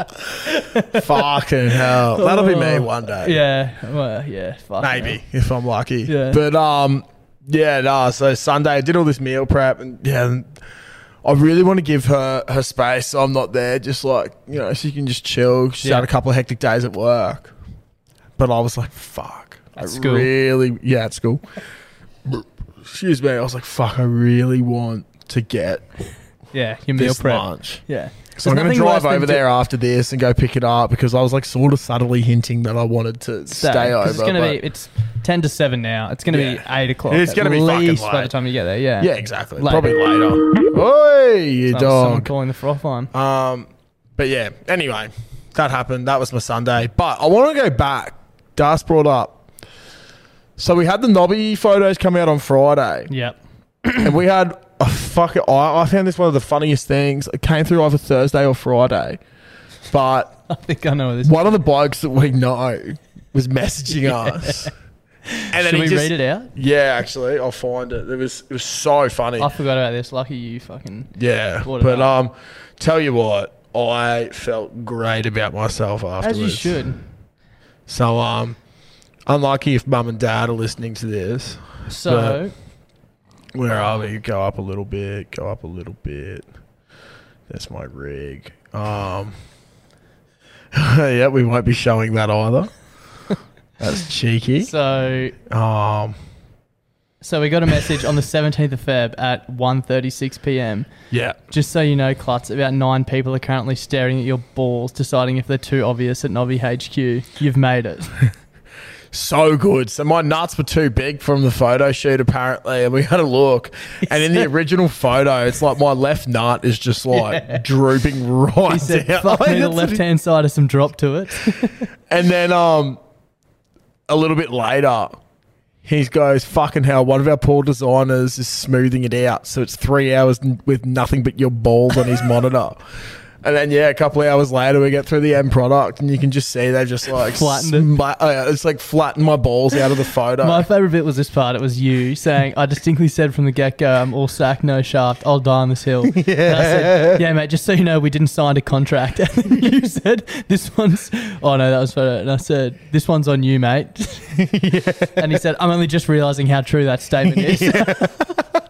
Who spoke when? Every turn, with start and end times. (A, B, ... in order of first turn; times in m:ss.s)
0:00.5-0:01.0 A
0:00.9-0:03.4 B
0:02.1-0:05.2 A
0:04.8-0:10.6 B
0:06.1-0:06.4 A
0:11.2-0:17.5 B
0:18.4-0:21.4 B
0:19.8-0:20.3 A
0:22.2-0:25.8 B
0:26.5-0:29.4 A
0:27.0-0:27.8 B
0:28.4-0:34.6 B
0:33.5-0:40.0 A
0:36.3-0:38.3 B
0:39.0-0:42.3 B
0:41.7-0:43.1 A
0:43.1-0:49.4 B
0:50.6-0:53.1 B
0:53.1-0:54.1 A
0:54.0-0:59.2 B
0:59.9-1:00.4 B
1:00.5-1:01.6 A
1:01.2-1:04.7 B
1:03.9-1:04.7 A
1:05.4-1:06.5 A
1:05.5-1:09.5 B
1:09.4-1:11.1 A
1:11.1-1:16.8 B
1:11.6-1:12.1 A
1:16.2-1:17.0 A
1:17.9-1:18.6 B
1:19.2-1:22.4 B
1:21.9-1:22.5 A
1:23.5-1:26.5 B
1:27.5-1:29.3 B
1:30.7-1:32.7 B
1:33.8-1:34.7 B
1:34.6-1:35.3 A
1:35.4-1:36.2 B
1:37.2-1:40.9 A
1:41.1-1:41.4 B
1:41.5-1:48.2 A
1:49.1-2:00.0 B
1:57.1-1:57.6 A
1:58.7-2:01.8 A
2:02.1-2:03.0 B
2:04.1-2:05.2 B
2:05.8-2:12.8 B
2:13.4-2:20.6 B
2:17.3-2:17.9 A
2:20.4-2:34.4 A
2:26.1-2:27.2 B
2:34.4-2:35.2 B
2:35.2-2:38.1 A
2:37.2-2:38.4 B